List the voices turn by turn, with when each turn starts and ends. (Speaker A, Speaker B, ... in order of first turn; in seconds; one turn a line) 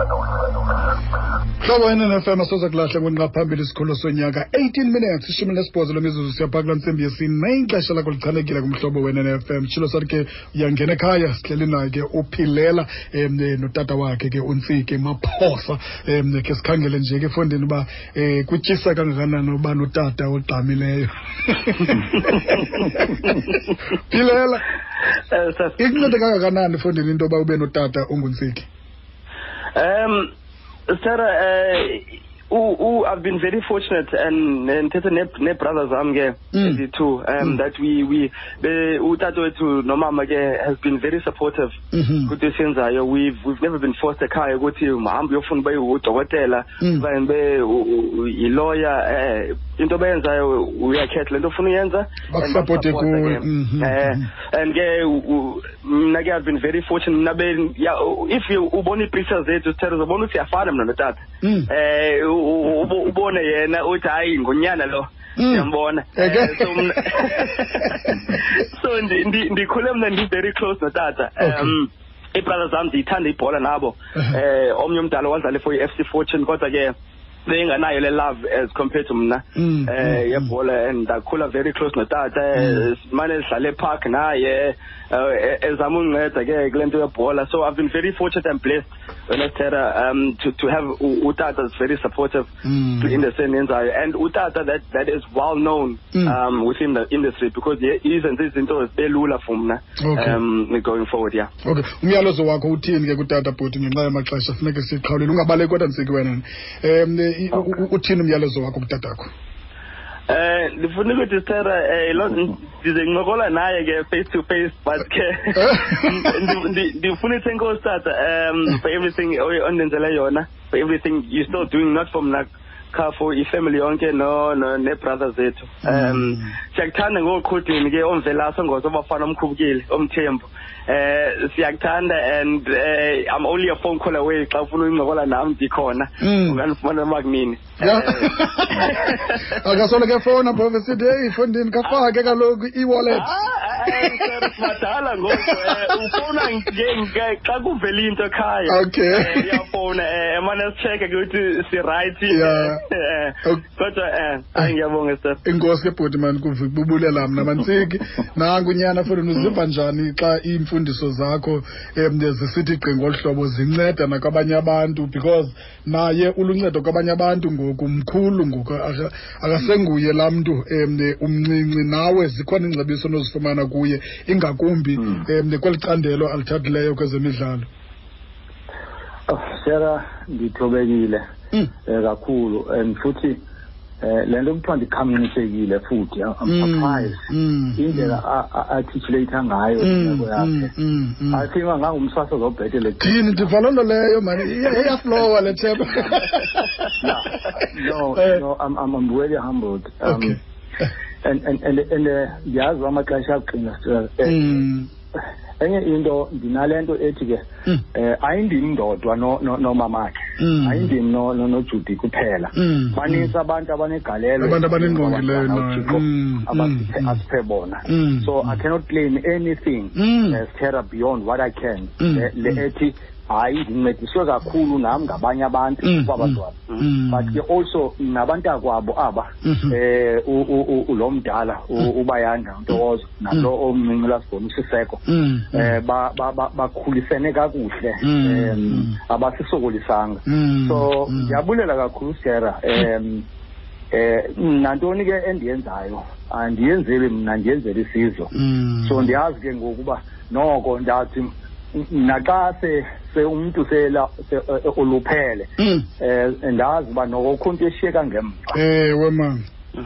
Speaker A: 1.6-23.3
Speaker B: 22.2-23.6
Speaker A: 24.1-24.7
Speaker B: 25.3-25.8
Speaker A: 25.8-28.7
Speaker B: 29.8-30.3
Speaker B: 30.9-76.9
Speaker A: 36.5-36.8
Speaker A: 41.9-42.3
Speaker A: 46.8-47.1
Speaker A: 52.3-54.3
Speaker A: 61.4-61.7
Speaker A: 65.4-67.3
Speaker A: 71.4-71.8
Speaker B: 77.5-101.5
Speaker A: 79.6-80.5
Speaker A: 82.6-82.9
Speaker A: 92.6-93.2
Speaker A: 100.0-100.4
Speaker A: 101.6-109.3
Speaker B: 110.3-139.7
Speaker A: 115.5-116.5
Speaker A: 125.8-126.5
Speaker A: 136.2-136.6
Speaker A: 137.8-143.3
Speaker B: 143.1-155.4
Speaker A: 143.9-144.4
Speaker A: 145.4-146.2
Speaker A: 148.7-149.6
Speaker A: 152.3-152.8
Speaker A: 155.5-177.7
Speaker C: 179.3-181.2
Speaker C: 181.8-183.4
Speaker C: 184.0-187.2
Speaker A: 186.5-188.2
Speaker C: 187.8-190.7
Speaker A: 189.8-191.5
Speaker C: 191.3-193.5
Speaker A: 193.0-197.7
Speaker C: 195.9-196.2
Speaker C: 197.0-200.4
Speaker A: 200.1-200.4
Speaker C: 201.2-204.4
Speaker A: 204.2-204.9
Speaker C: 205.6-243.3
Speaker A: 210.4-210.9
Speaker A: 212.6-213.3
Speaker A: 214.4-217.2
Speaker A: 217.9-218.6
Speaker A: 220.0-220.4
Speaker A: 222.0-222.6
Speaker A: 225.8-227.4
Speaker A: 229.4-229.8
Speaker A: 235.1-235.8
Speaker A: 238.0-239.0
Speaker A: 240.3-241.4
Speaker C: 243.9-248.3
Speaker A: 248.3-249.1
Speaker C: 248.8-258.6
Speaker A: 255.6-255.9
Speaker A: 258.5-259.4